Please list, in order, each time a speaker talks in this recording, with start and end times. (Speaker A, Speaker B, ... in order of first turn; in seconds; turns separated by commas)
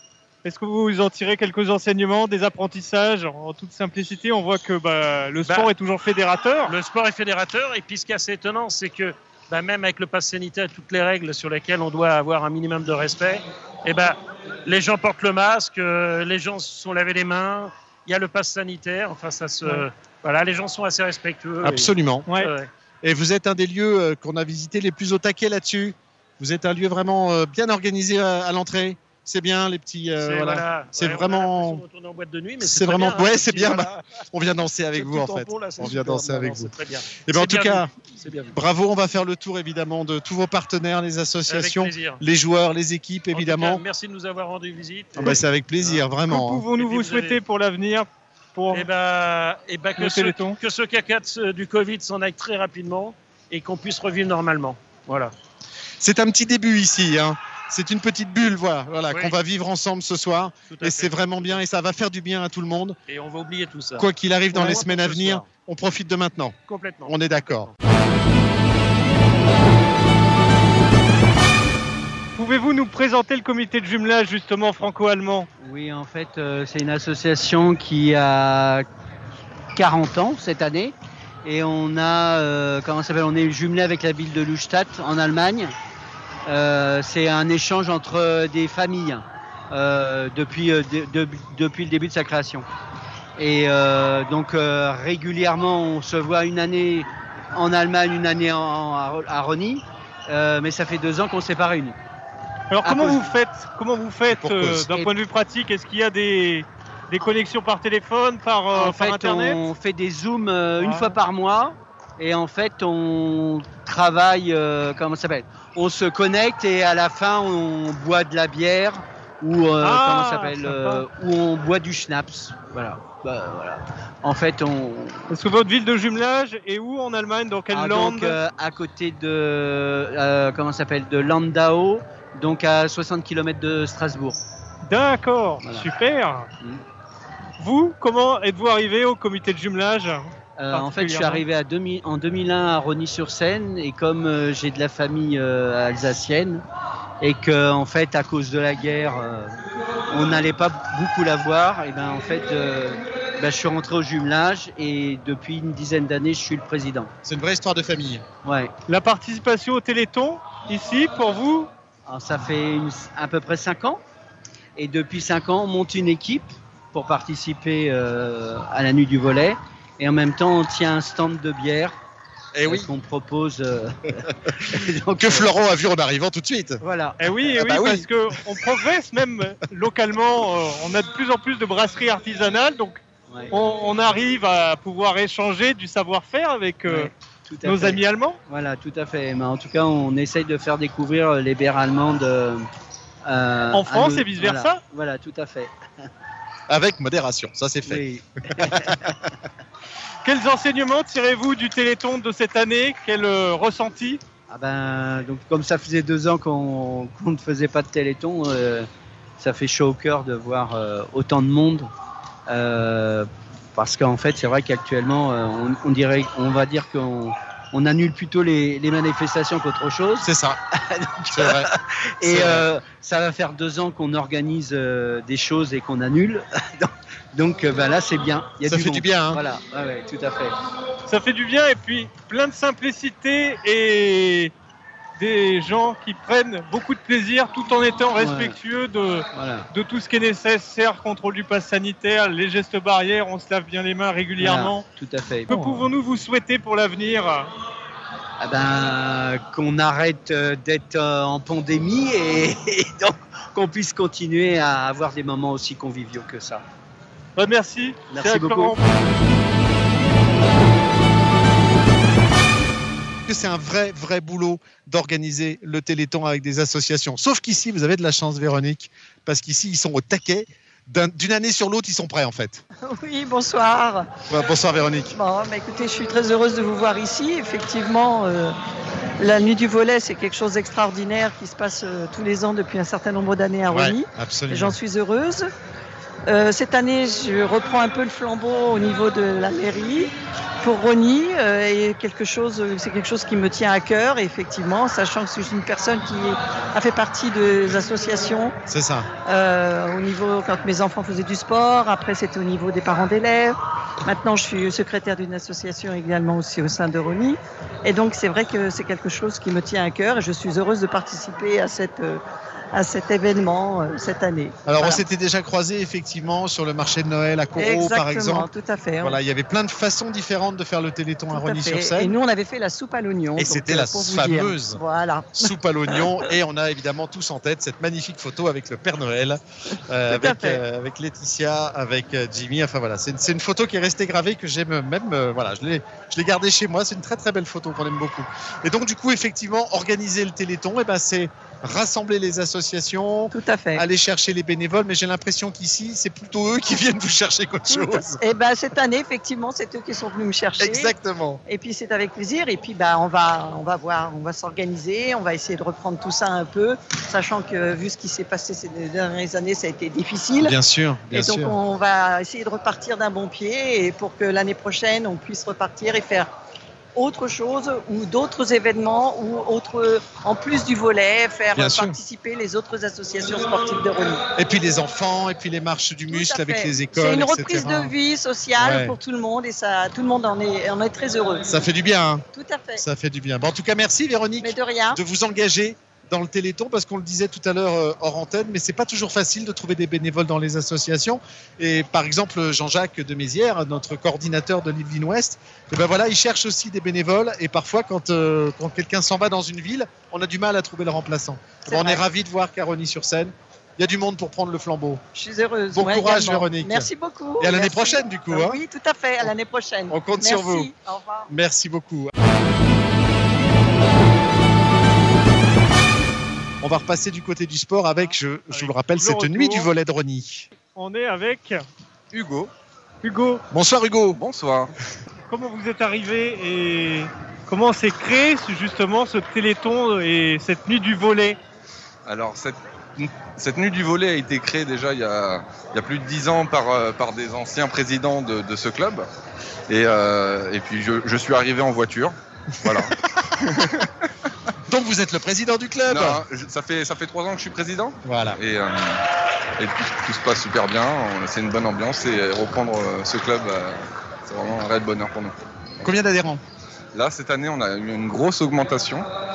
Speaker A: 0.4-6.7, Speaker B: 6.7-22.7, Speaker C: 21.6-22.3, Speaker C: 23.0-31.8, Speaker B: 30.2-34.0, Speaker C: 32.6-36.7, Speaker B: 35.0-38.5, Speaker C: 37.2-37.9, Speaker C: 38.5-43.8, Speaker B: 41.5-42.2, Speaker B: 43.3-46.0, Speaker C: 45.1-46.7, Speaker A: 46.3-48.9, Speaker B: 46.7-47.4, Speaker B: 48.7-55.3, Speaker A: 50.0-50.6, Speaker C: 56.0-63.0, Speaker B: 59.1-59.4, Speaker B: 60.7-61.6, Speaker B: 63.1-65.5, Speaker C: 64.0-67.7, Speaker B: 66.7-67.7, Speaker A: 72.3-75.5, Speaker D: 75.6-78.8, Speaker D: 79.8-85.7, Speaker D: 86.5-92.7, Speaker D: 93.4-102.0, Speaker A: 102.7-109.6, Speaker D: 102.8-103.3, Speaker C: 104.3-105.0, Speaker D: 108.7-125.3, Speaker A: 110.8-111.2, Speaker A: 119.8-121.0, Speaker A: 125.3-128.4, Speaker D: 127.7-134.4, Speaker A: 134.8-136.5, Speaker D: 135.6-135.9, Speaker A: 137.6-141.4, Speaker D: 140.6-146.6, Speaker D: 147.2-149.5, Speaker D: 150.1-157.1, Speaker C: 157.2-158.3, Speaker D: 158.4-158.7, Speaker A: 158.9-161.7, Speaker D: 162.1-164.0, Speaker D: 164.8-171.9, Speaker C: 172.5-172.9, Speaker D: 172.7-175.5, Speaker C: 175.2-176.8, Speaker D: 176.8-177.6, Speaker A: 177.2-187.1, Speaker C: 177.5-178.1, Speaker D: 183.3-183.5, Speaker D: 186.8-192.7, Speaker A: 187.6-188.4, Speaker D: 193.2-196.1, Speaker A: 193.7-194.8, Speaker C: 196.7-199.1, Speaker D: 197.8-199.2, Speaker A: 200.2-204.2, Speaker D: 204.5-208.9, Speaker D: 209.4-211.9, Speaker D: 212.5-230.5, Speaker C: 220.2-220.6, Speaker C: 221.3-221.7, Speaker C: 222.2-222.7, Speaker C: 228.6-229.4, Speaker A: 231.1-234.5, Speaker A: 235.2-244.8, Speaker D: 238.2-238.6, Speaker D: 239.3-239.7, Speaker D: 244.4-245.9, Speaker A: 245.5-247.5, Speaker D: 248.4-256.6, Speaker A: 257.4-258.8, Speaker D: 258.1-258.8, Speaker C: 263.2-272.6, Speaker E: 272.8-274.1, Speaker C: 274.3-275.1, Speaker E: 275.1-278.5, Speaker E: 279.2-285.5, Speaker C: 283.7-284.8, Speaker E: 286.3-298.6, Speaker C: 298.7-299.1, Speaker E: 299.2-312.2, Speaker E: 312.7-315.0, Speaker C: 314.6-318.5, Speaker E: 317.6-319.2, Speaker C: 319.0-322.1, Speaker E: 321.3-325.5, Speaker C: 323.4-324.8, Speaker C: 325.4-348.2, Speaker E: 330.1-330.6, Speaker E: 343.3-343.8, Speaker E: 347.7-350.9, Speaker C: 350.6-351.4, Speaker E: 351.5-360.6, Speaker C: 360.4-361.6, Speaker E: 361.1-366.3, Speaker E: 366.9-374.2, Speaker C: 371.5-372.0, Speaker C: 374.4-377.9, Speaker E: 376.1-381.5, Speaker C: 378.6-379.0, Speaker C: 381.5-382.2, Speaker E: 382.3-382.8, Speaker C: 382.8-405.0, Speaker E: 384.4-385.0, Speaker E: 401.7-402.0, Speaker E: 405.1-411.3, Speaker C: 405.7-408.6, Speaker C: 409.9-410.7, Speaker C: 411.3-412.1, Speaker C: 416.6-420.5, Speaker A: 418.5-419.7, Speaker A: 420.6-421.6, Speaker F: 422.1-422.5, Speaker A: 423.0-423.4, Speaker C: 423.5-424.2, Speaker F: 424.1-424.7, Speaker A: 425.3-431.4, Speaker F: 432.1-439.1, Speaker F: 439.7-444.1, Speaker C: 444.7-446.2, Speaker F: 445.9-449.1, Speaker C: 448.0-448.4, Speaker F: 449.6-455.3, Speaker C: 455.8-456.4, Speaker F: 456.9-459.1